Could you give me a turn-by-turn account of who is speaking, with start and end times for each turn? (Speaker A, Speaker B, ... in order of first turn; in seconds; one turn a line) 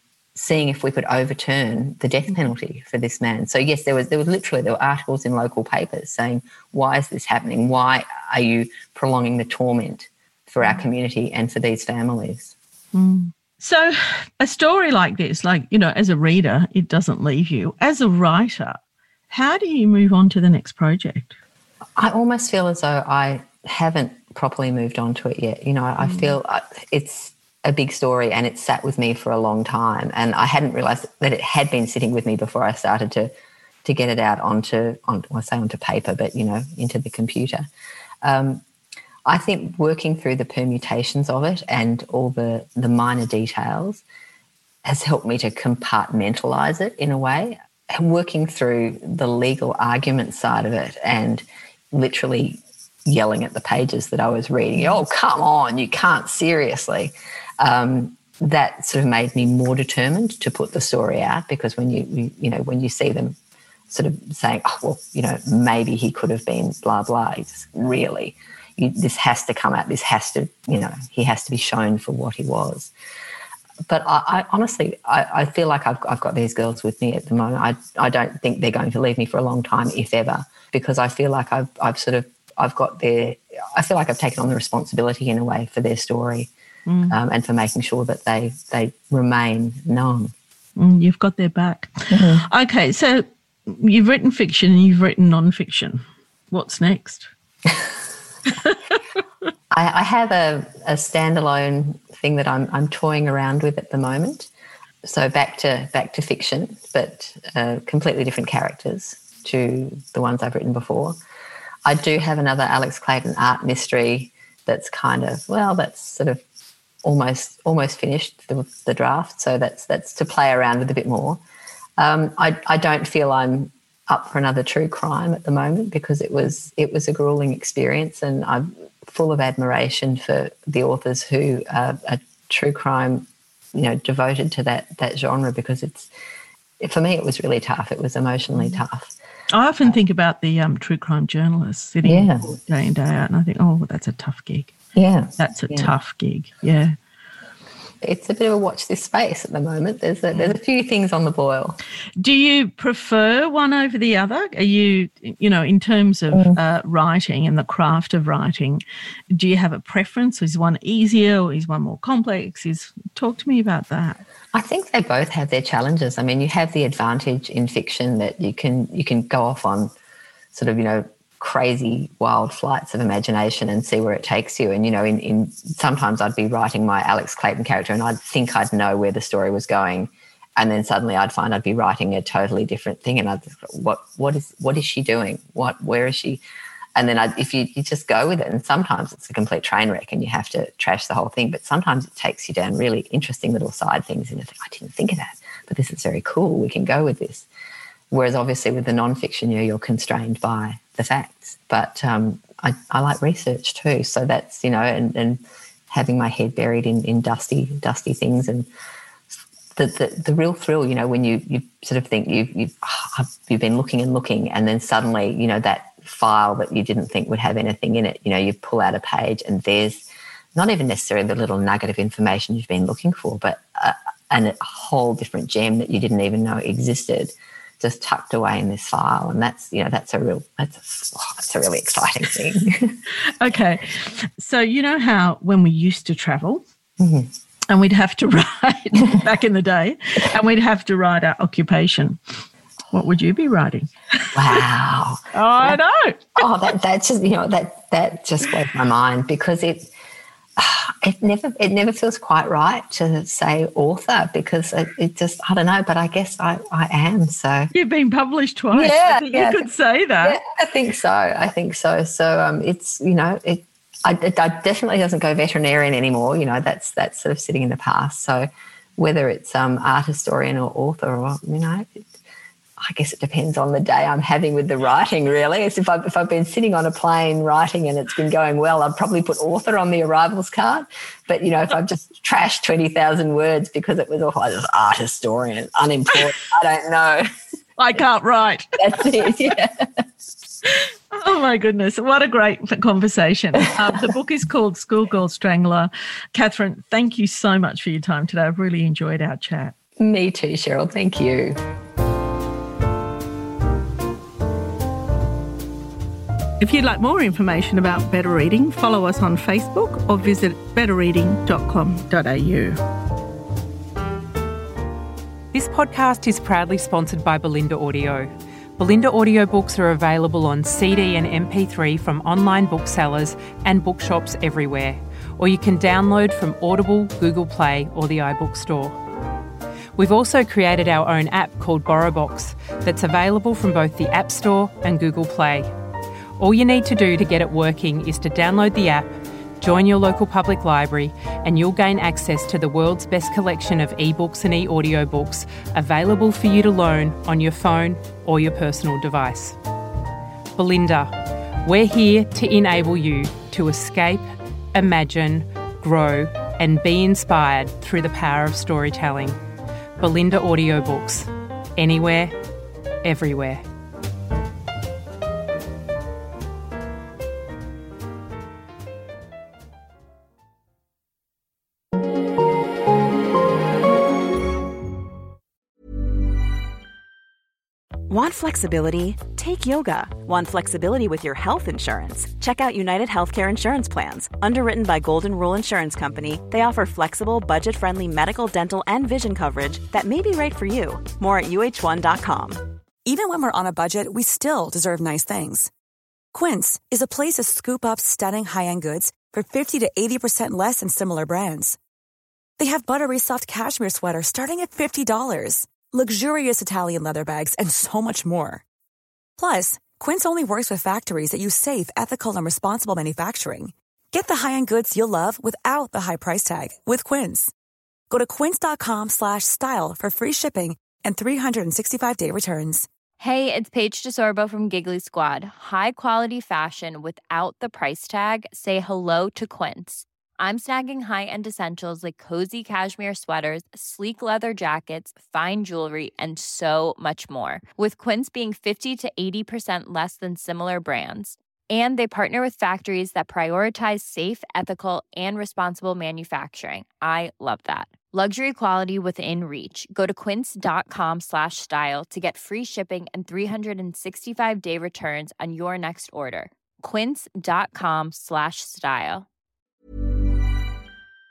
Speaker A: 0.3-12.5
Speaker B: 12.9-18.8
Speaker B: 19.3-21.3
Speaker A: 22.0-33.3
Speaker A: 33.8-37.7
Speaker A: 38.2-38.6
Speaker A: 39.2-44.0
Speaker A: 44.8-63.4
Speaker A: 63.9-72.9
Speaker A: 73.9-86.5
Speaker B: 86.9-87.2
Speaker A: 87.1-90.3
Speaker B: 90.8-97.3
Speaker A: 92.1-92.5
Speaker A: 99.7-104.5
Speaker A: 105.0-111.2
Speaker A: 111.8-116.4
Speaker A: 117.0-121.4
Speaker A: 122.0-136.1
Speaker A: 136.8-139.1
Speaker B: 139.5-144.7
Speaker A: 142.0-142.4
Speaker A: 144.9-145.9
Speaker B: 145.4-147.0
Speaker A: 148.0-151.8
Speaker B: 152.2-164.2
Speaker A: 164.5-169.9
Speaker A: 170.5-186.4
Speaker A: 186.9-197.5
Speaker A: 198.1-208.7
Speaker A: 209.8-233.0
Speaker B: 233.4-236.6
Speaker A: 237.0-237.3
Speaker B: 237.7-242.2
Speaker B: 242.9-244.6
Speaker A: 244.3-245.8
Speaker B: 245.3-246.4
Speaker A: 246.4-249.9
Speaker A: 250.6-257.7
Speaker B: 257.7-260.4
Speaker A: 258.7-259.7
Speaker A: 260.2-272.1
Speaker A: 272.8-287.2
Speaker B: 287.8-289.3
Speaker A: 288.8-289.8
Speaker B: 290.6-299.7
Speaker A: 300.0-301.6
Speaker B: 306.6-312.8
Speaker C: 315.5-329.0
Speaker C: 329.9-335.7
Speaker C: 336.4-349.6
Speaker C: 350.6-359.4
Speaker C: 360.0-362.3
Speaker C: 363.0-363.6
Speaker D: 378.1-392.6
Speaker E: 393.0-395.7
Speaker E: 396.3-401.8
Speaker E: 402.6-408.6
Speaker E: 409.4-417.5
Speaker E: 418.1-422.9
Speaker F: 423.2-459.3